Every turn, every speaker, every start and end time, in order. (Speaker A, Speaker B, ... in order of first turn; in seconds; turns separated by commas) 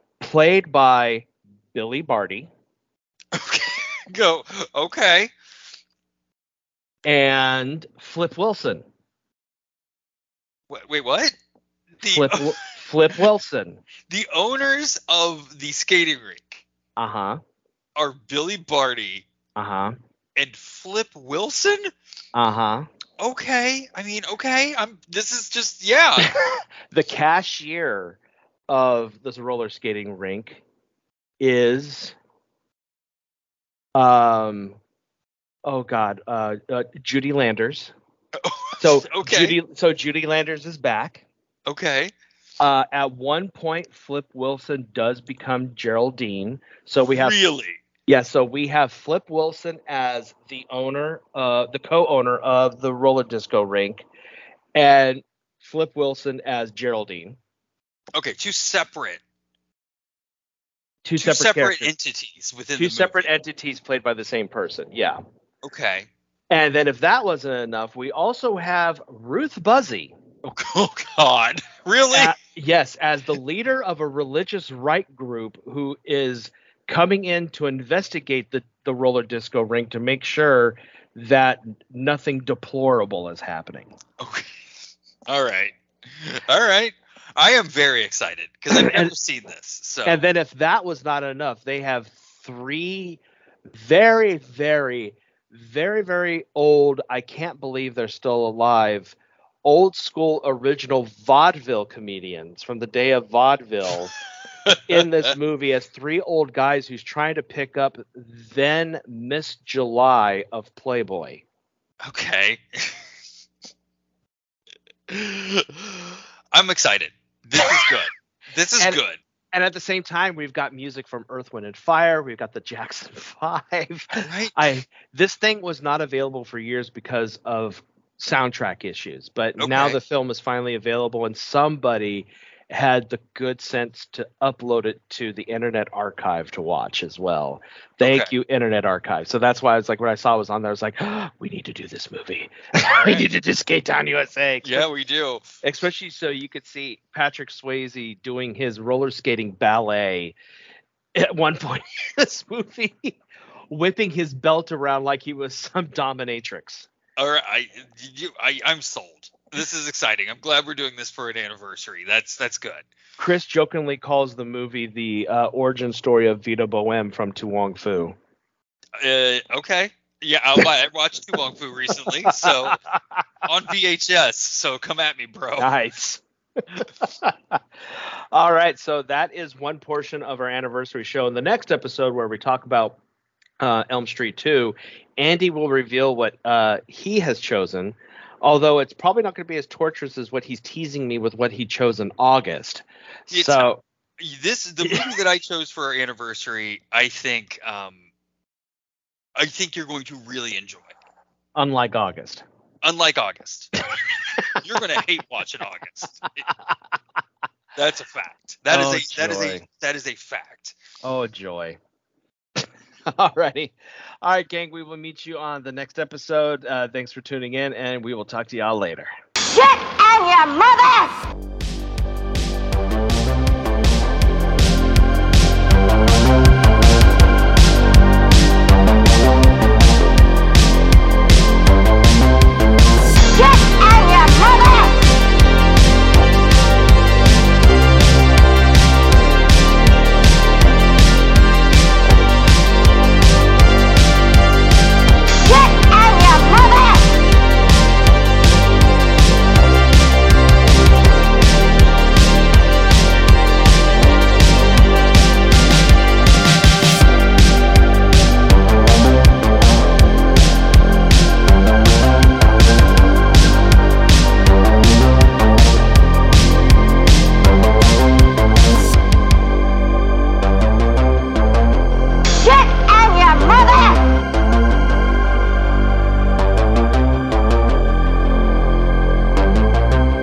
Speaker A: 0.2-2.5, Speaker B: 3.3-5.3, Speaker A: 7.0-8.8, Speaker B: 10.7-11.3, Speaker B: 12.0-12.7, Speaker A: 12.1-13.8, Speaker B: 14.1-16.6, Speaker A: 17.0-17.4, Speaker B: 17.9-19.2, Speaker A: 19.6-20.0, Speaker B: 20.4-21.9, Speaker A: 22.3-22.9, Speaker B: 23.2-26.3, Speaker A: 26.2-30.6, Speaker A: 31.4-32.1, Speaker A: 33.9-34.8, Speaker A: 35.6-37.9, Speaker B: 38.4-39.6, Speaker A: 38.8-41.2, Speaker B: 41.7-42.1, Speaker A: 42.6-47.4, Speaker B: 47.0-47.8, Speaker A: 48.1-54.0, Speaker A: 54.7-57.4, Speaker B: 58.1-59.2, Speaker A: 61.0-61.9, Speaker B: 61.2-63.2, Speaker A: 62.8-65.2, Speaker B: 65.6-66.1, Speaker A: 66.5-70.2, Speaker B: 70.4-72.3, Speaker A: 72.1-83.9, Speaker B: 84.2-84.7, Speaker B: 85.3-90.2, Speaker A: 88.7-89.1, Speaker A: 90.0-104.1, Speaker B: 104.7-105.3, Speaker A: 104.7-111.4, Speaker B: 112.0-113.0, Speaker B: 115.1-119.2, Speaker A: 119.5-144.8, Speaker B: 124.2-124.6, Speaker B: 129.6-130.0, Speaker B: 138.0-138.3, Speaker B: 142.8-143.2, Speaker B: 144.6-145.4, Speaker A: 145.6-150.3, Speaker A: 151.1-156.9, Speaker B: 157.2-162.9, Speaker A: 163.2-168.2, Speaker B: 169.0-172.8, Speaker A: 172.2-173.2, Speaker B: 173.4-175.7, Speaker A: 175.6-183.0, Speaker A: 183.6-193.8, Speaker B: 193.3-193.7, Speaker B: 194.2-198.0, Speaker A: 194.8-195.1, Speaker B: 199.3-200.9, Speaker A: 201.5-202.4, Speaker B: 202.8-203.7, Speaker A: 204.0-204.5, Speaker B: 204.5-206.5, Speaker B: 207.8-210.7, Speaker A: 208.7-209.6, Speaker A: 211.0-211.8, Speaker A: 212.6-219.1, Speaker C: 219.4-221.2, Speaker C: 233.2-235.0, Speaker C: 245.4-247.2, Speaker C: 272.4-274.1